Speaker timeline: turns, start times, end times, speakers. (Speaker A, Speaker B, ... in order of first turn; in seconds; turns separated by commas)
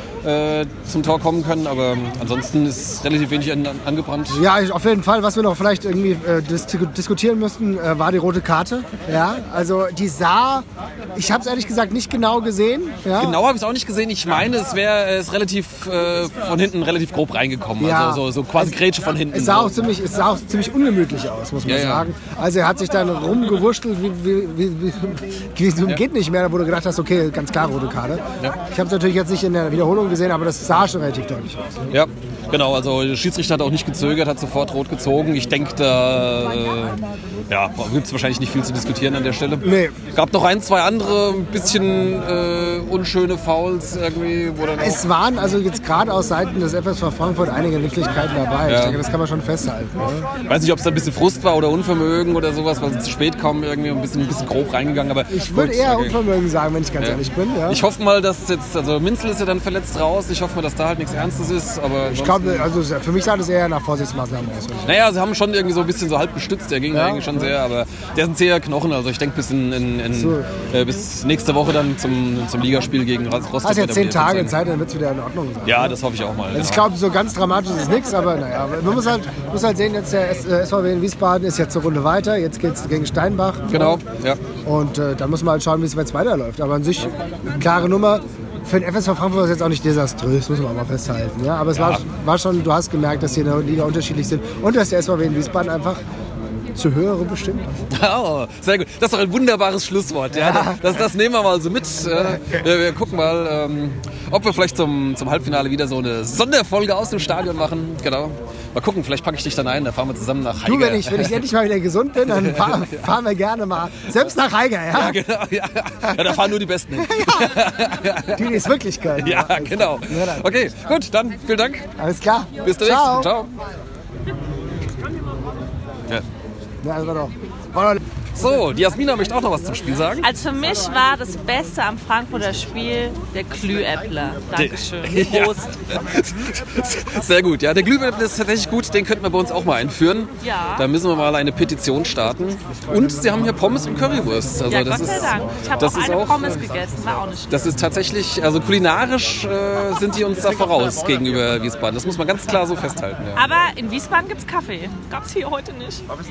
Speaker A: 0.2-4.4, Speaker B: 4.3-13.4, Speaker A: 13.1-19.8, Speaker B: 17.8-18.8, Speaker B: 19.3-31.6, Speaker A: 21.6-22.1, Speaker A: 31.9-45.0, Speaker B: 39.6-39.9, Speaker B: 44.8-50.3, Speaker A: 48.6-49.0, Speaker A: 50.5-56.2, Speaker B: 55.3-57.8, Speaker A: 57.0-62.7, Speaker B: 62.1-65.0, Speaker A: 64.8-74.6, Speaker B: 66.9-67.5, Speaker B: 70.1-70.6, Speaker B: 73.6-76.0, Speaker A: 75.6-76.9, Speaker B: 76.5-84.0, Speaker A: 83.7-84.4, Speaker B: 84.7-96.0, Speaker A: 91.7-92.0, Speaker B: 96.7-97.7, Speaker A: 97.9-111.4, Speaker B: 100.3-101.0, Speaker B: 110.6-115.2, Speaker A: 112.2-113.1, Speaker A: 114.9-118.7, Speaker B: 116.1-117.6, Speaker B: 118.3-120.5, Speaker A: 119.2-121.9, Speaker B: 122.0-123.3, Speaker A: 122.6-123.5, Speaker B: 126.8-128.0, Speaker A: 128.3-130.3, Speaker C: 130.2-135.7, Speaker A: 134.5-146.5, Speaker C: 140.4-140.8, Speaker C: 144.7-147.6, Speaker A: 147.5-153.5, Speaker C: 153.3-156.1